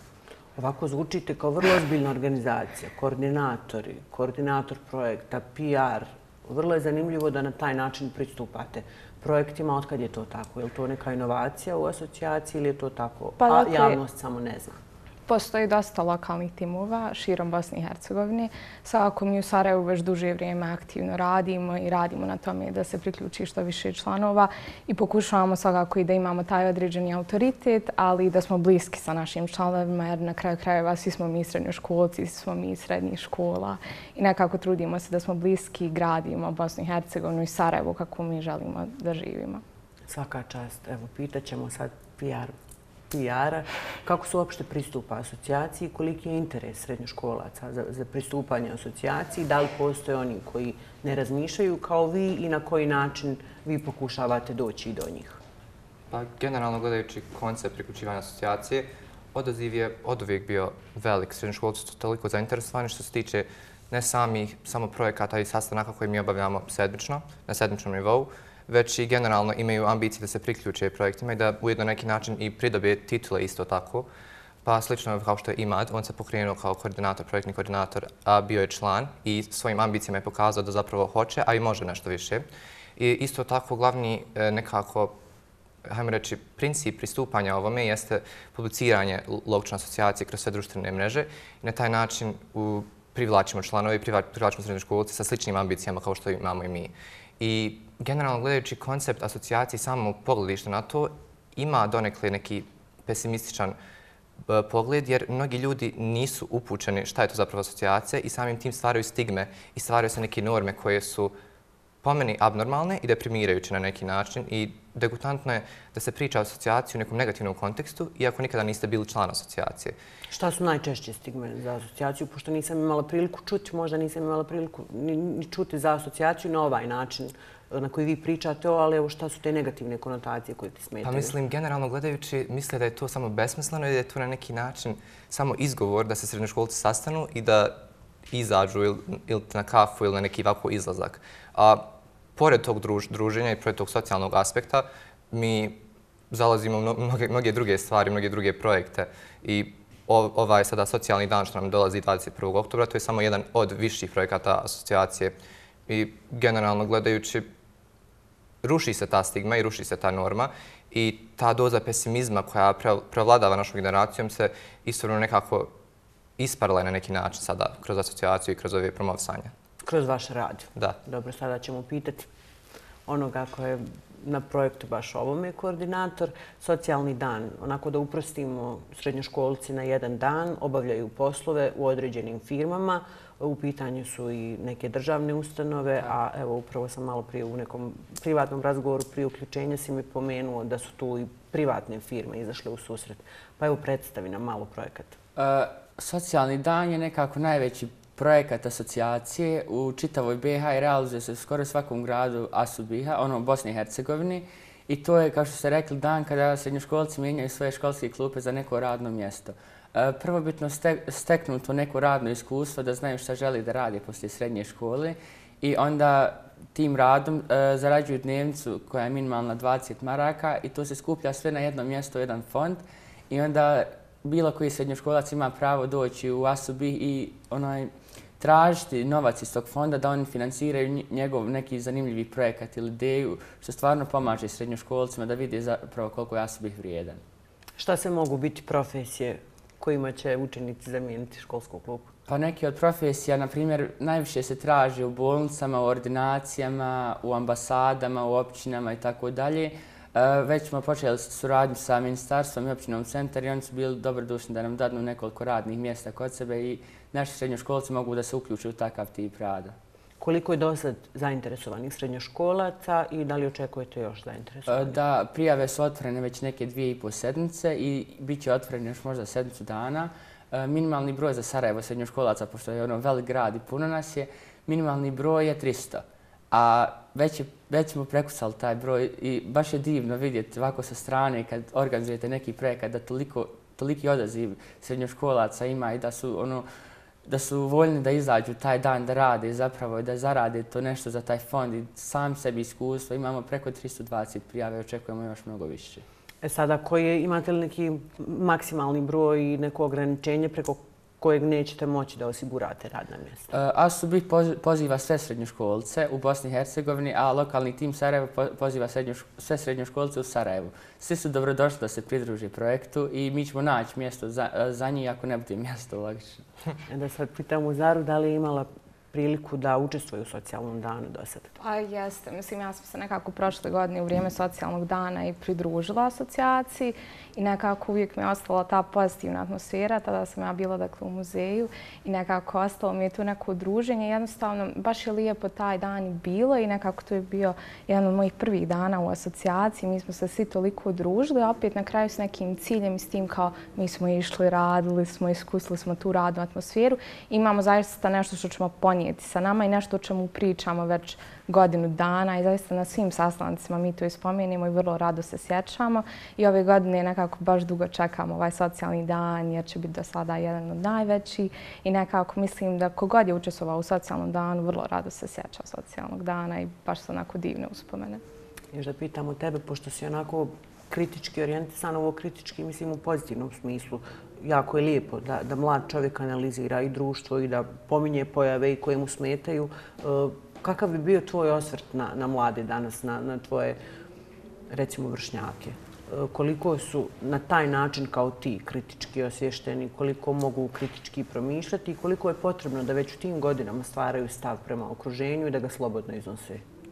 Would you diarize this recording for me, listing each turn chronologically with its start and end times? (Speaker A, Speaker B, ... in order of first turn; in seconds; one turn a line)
Speaker A: 0.6-14.8
Speaker B: 13.4-14.0
Speaker B: 15.3-39.6
Speaker A: 40.1-42.5
Speaker A: 43.1-55.4
Speaker C: 56.1-74.1
Speaker C: 74.6-85.1
Speaker C: 85.8-103.8
Speaker C: 104.5-111.3
Speaker C: 112.0-120.0
Speaker A: 120.3-131.3
Speaker C: 131.0-145.8
Speaker C: 146.3-155.4
Speaker C: 155.9-157.4
Speaker C: 158.6-165.7
Speaker C: 166.4-169.5
Speaker A: 169.8-172.3
Speaker A: 173.1-195.2
Speaker D: 195.3-237.2
Speaker A: 237.8-242.1
Speaker D: 242.3-259.8
Speaker A: 260.2-265.0
Speaker D: 264.7-286.6
Speaker D: 287.2-296.0
Speaker A: 296.4-303.5
Speaker D: 303.5-316.4
Speaker A: 316.9-321.5
Speaker B: 321.6-368.2
Speaker A: 368.7-383.8
Speaker A: 384.7-396.6